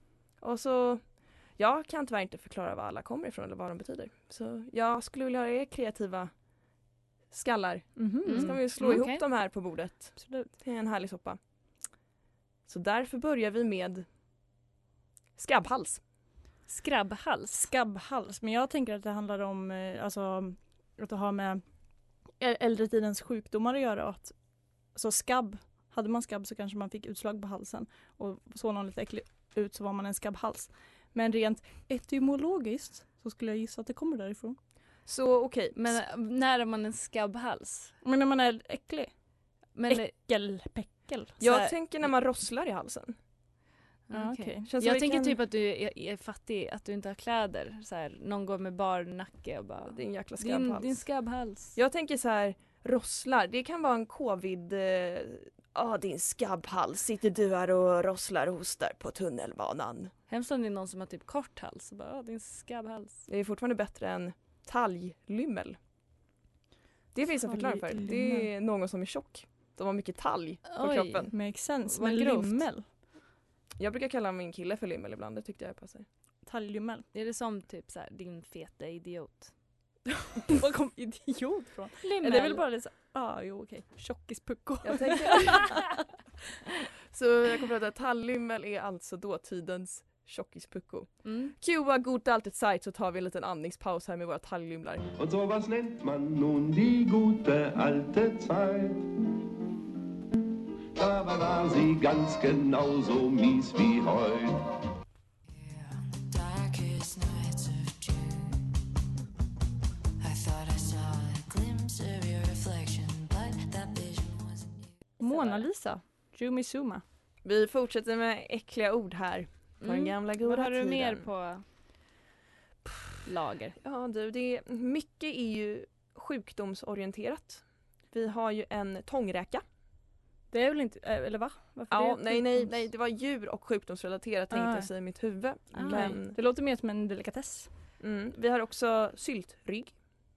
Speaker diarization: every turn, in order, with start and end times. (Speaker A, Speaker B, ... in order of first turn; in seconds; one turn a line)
Speaker A: 0.4-1.0
Speaker A: 1.6-6.3
Speaker A: 7.3-11.4
Speaker B: 8.0-8.5
Speaker C: 8.2-9.2
Speaker A: 12.7-14.1
Speaker A: 15.4-16.0
Speaker C: 16.7-17.7
Speaker B: 17.6-21.6
Speaker B: 22.4-24.4
Speaker B: 24.9-34.6
Speaker A: 35.1-36.0
Speaker C: 35.8-38.0
Speaker B: 38.0-39.1
Speaker C: 39.8-40.1
Speaker B: 39.9-41.6
Speaker A: 41.4-43.2
Speaker C: 44.1-51.8
Speaker B: 44.1-44.7
Speaker A: 44.7-45.4
Speaker A: 49.9-51.0
Speaker A: 51.8-60.1
Speaker C: 60.3-63.2
Speaker A: 63.3-65.8
Speaker A: 67.1-71.3
Speaker B: 67.5-68.5
Speaker C: 70.7-71.3
Speaker B: 71.3-72.8
Speaker A: 72.1-72.5
Speaker A: 73.8-76.1
Speaker B: 76.5-77.0
Speaker C: 77.1-79.5
Speaker B: 80.5-85.7
Speaker C: 82.0-82.6
Speaker A: 84.8-85.7
Speaker A: 87.1-95.1
Speaker C: 91.2-91.5
Speaker D: 95.2-99.1
Speaker D: 101.0-104.6
Speaker E: 105.5-108.7
Speaker E: 110.2-114.9
Speaker B: 115.2-117.0
Speaker C: 115.2-115.7
Speaker A: 117.4-121.3
Speaker C: 119.8-121.6
Speaker A: 122.9-123.1
Speaker C: 123.2-123.8
Speaker A: 123.8-129.6
Speaker B: 130.5-132.7
Speaker A: 131.9-136.4
Speaker B: 134.5-134.9
Speaker C: 135.7-136.2
Speaker B: 135.9-137.7
Speaker A: 138.0-140.0